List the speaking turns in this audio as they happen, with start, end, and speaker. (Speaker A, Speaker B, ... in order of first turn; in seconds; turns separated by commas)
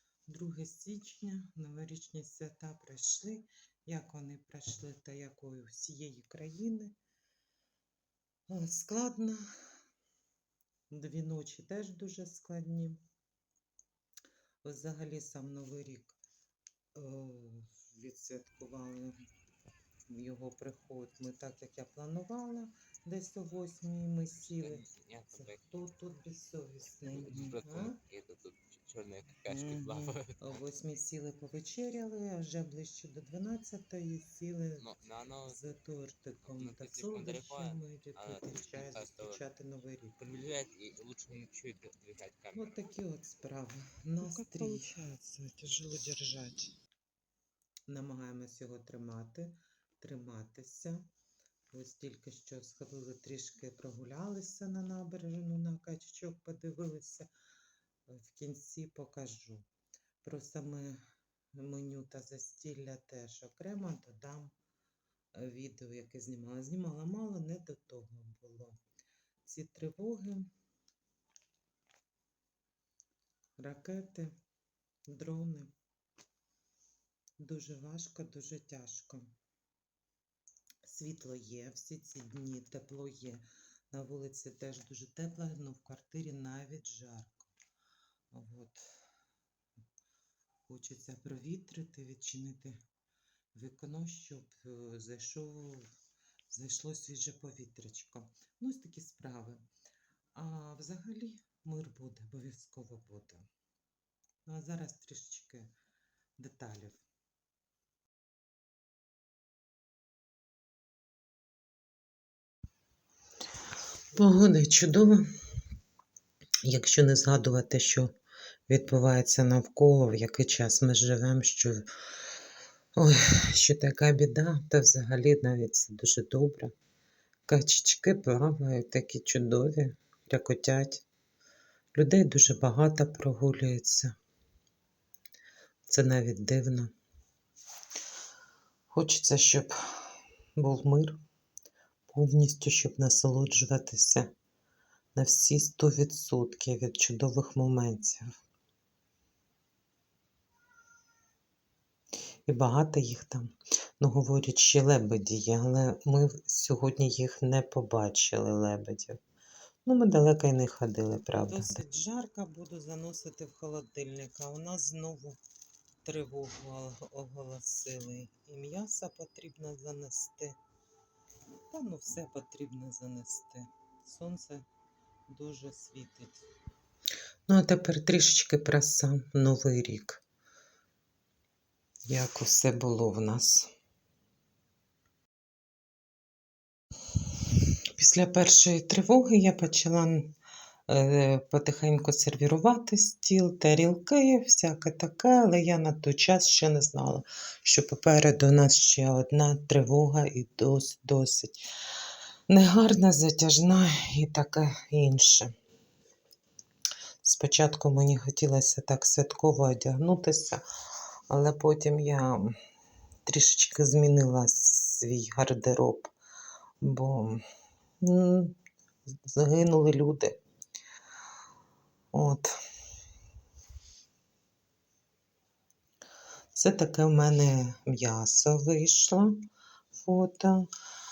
Speaker A: 0.3-6.9, Speaker A: 8.5-9.4, Speaker A: 10.9-13.0, Speaker A: 14.6-16.2, Speaker A: 16.9-19.2, Speaker A: 20.1-28.0, Speaker B: 24.4-25.7, Speaker B: 27.1-30.5, Speaker A: 29.4-34.9, Speaker B: 34.8-35.6, Speaker A: 35.5-40.2, Speaker B: 36.5-39.4, Speaker B: 40.2-42.8, Speaker A: 42.5-45.0, Speaker C: 44.4-46.7, Speaker A: 47.9-51.1, Speaker A: 51.7-57.3, Speaker A: 58.1-59.7, Speaker A: 60.2-61.0, Speaker A: 61.5-64.5, Speaker A: 65.3-68.8, Speaker A: 69.4-70.5, Speaker A: 73.6-74.3, Speaker A: 75.1-75.7, Speaker A: 77.4-79.3, Speaker A: 80.8-87.5, Speaker A: 88.3-88.9, Speaker A: 90.7-92.8, Speaker A: 93.5-95.9, Speaker A: 96.5-99.6, Speaker A: 100.3-103.5, Speaker A: 104.5-105.7, Speaker A: 106.4-107.0, Speaker A: 114.1-115.3, Speaker A: 116.6-118.1, Speaker A: 118.7-121.8, Speaker A: 123.0-126.7, Speaker A: 127.5-131.0, Speaker A: 131.9-134.1, Speaker A: 135.9-136.9, Speaker A: 138.9-139.7, Speaker A: 140.6-141.2, Speaker A: 142.1-144.3, Speaker A: 145.1-148.3, Speaker A: 152.4-159.2, Speaker A: 159.8-165.4, Speaker A: 166.0-170.6, Speaker A: 171.7-174.7, Speaker A: 175.3-176.4, Speaker A: 177.5-180.2, Speaker A: 182.1-183.7, Speaker A: 187.9-190.3, Speaker A: 190.9-201.7, Speaker A: 202.5-205.5, Speaker A: 207.2-210.6, Speaker A: 211.3-212.6, Speaker A: 213.2-216.1, Speaker A: 216.8-217.4, Speaker A: 218.0-218.6, Speaker A: 219.2-220.4, Speaker A: 222.1-222.6, Speaker A: 226.5-229.4, Speaker A: 229.9-230.7